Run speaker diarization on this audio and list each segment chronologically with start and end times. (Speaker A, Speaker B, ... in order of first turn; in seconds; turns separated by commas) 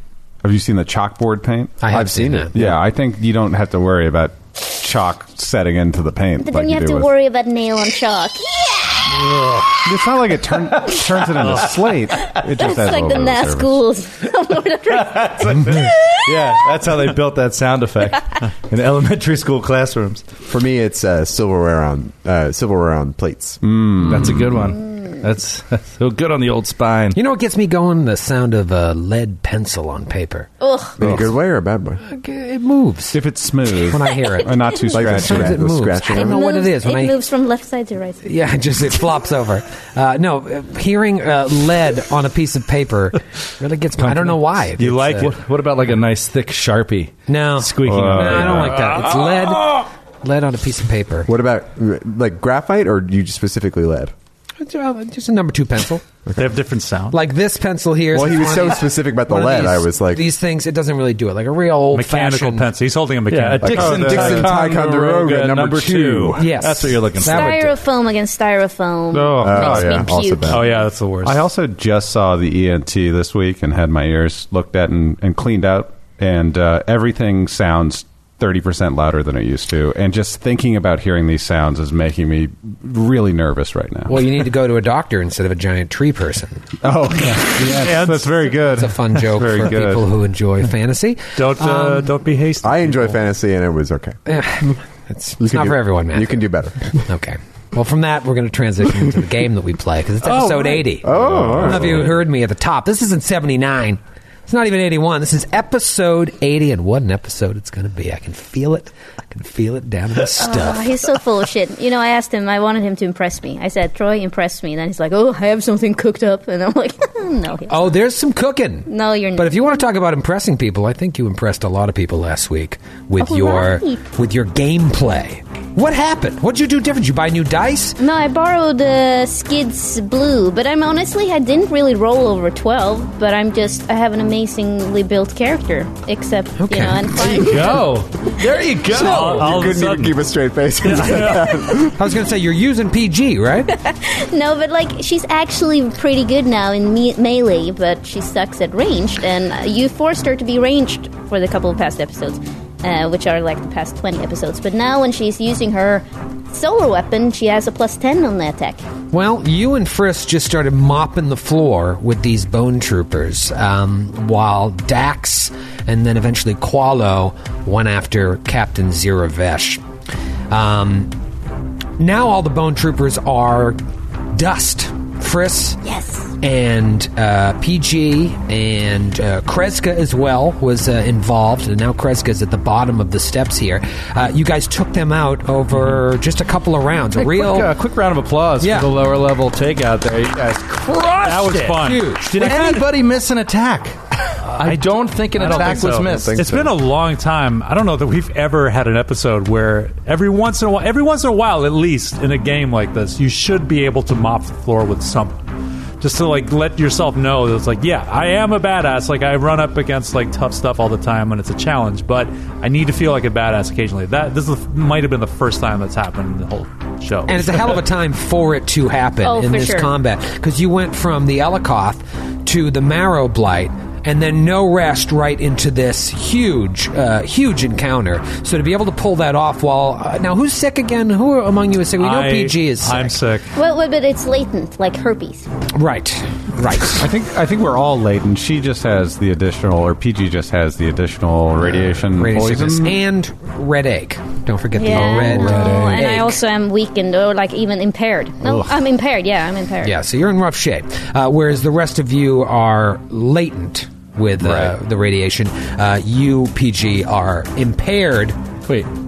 Speaker A: 0.4-1.8, Speaker B: 1.8-2.6, Speaker C: 1.9-2.6, Speaker A: 2.5-7.1, Speaker D: 6.4-9.2, Speaker A: 9.8-13.8, Speaker D: 12.2-16.2, Speaker E: 15.0-20.2, Speaker C: 20.5-23.6, Speaker A: 23.6-24.7, Speaker E: 24.1-27.2, Speaker B: 27.1-30.5, Speaker D: 30.6-30.9, Speaker C: 31.0-32.0, Speaker B: 32.0-33.2, Speaker A: 33.1-35.6, Speaker B: 33.8-37.2, Speaker D: 34.5-34.8, Speaker C: 34.9-36.4, Speaker D: 36.1-38.3, Speaker B: 38.2-45.3, Speaker E: 44.0-48.9, Speaker B: 47.3-51.3, Speaker A: 47.8-48.9, Speaker F: 48.9-49.2, Speaker C: 51.3-54.1, Speaker B: 54.6-56.2, Speaker F: 56.4-57.2, Speaker B: 57.1-62.7, Speaker C: 58.1-60.2, Speaker F: 61.9-64.2, Speaker E: 63.3-67.6, Speaker C: 63.6-66.3, Speaker A: 63.7-64.4, Speaker B: 66.2-67.8, Speaker D: 67.2-70.7, Speaker E: 69.1-69.8, Speaker C: 69.4-70.8, Speaker A: 69.5-70.0, Speaker F: 70.5-71.4, Speaker A: 71.2-84.3, Speaker B: 84.1-86.6, Speaker A: 86.8-90.0, Speaker F: 87.7-88.3, Speaker B: 88.3-92.1, Speaker F: 89.4-89.8, Speaker F: 91.4-93.2, Speaker C: 92.6-94.2, Speaker B: 94.3-96.4, Speaker C: 95.4-96.9, Speaker B: 96.9-101.1, Speaker F: 100.4-100.8, Speaker C: 101.0-102.1, Speaker B: 101.6-111.0, Speaker D: 110.4-118.0, Speaker B: 117.7-128.0, Speaker D: 118.9-119.8, Speaker D: 123.2-124.0, Speaker D: 128.0-137.8, Speaker B: 136.6-137.7, Speaker F: 137.3-138.1, Speaker E: 137.7-139.8, Speaker F: 138.9-140.2, Speaker C: 138.9-142.0, Speaker B: 139.0-139.5, Speaker F: 140.8-141.6, Speaker B: 142.0-143.7, Speaker D: 143.7-158.8, Speaker B: 159.1-169.8, Speaker B: 170.5-171.1, Speaker B: 172.0-173.8, Speaker B: 174.3-175.8, Speaker D: 175.8-176.3, Speaker B: 176.4-187.7, Speaker E: 185.7-186.0, Speaker E: 187.1-196.5, Speaker B: 188.6-188.9, Speaker F: 191.2-192.8, Speaker B: 191.7-192.8, Speaker F: 194.6-205.4, Speaker C: 195.5-196.8, Speaker F: 206.0-217.8, Speaker B: 217.3-233.2, Speaker D: 219.2-219.9, Speaker F: 232.0-233.5, Speaker D: 233.6-235.5, Speaker B: 235.8-237.0, Speaker A: 236.9-243.0, Speaker B: 242.0-246.4, Speaker D: 244.8-249.9, Speaker B: 249.8-258.4, Speaker E: 254.4-254.7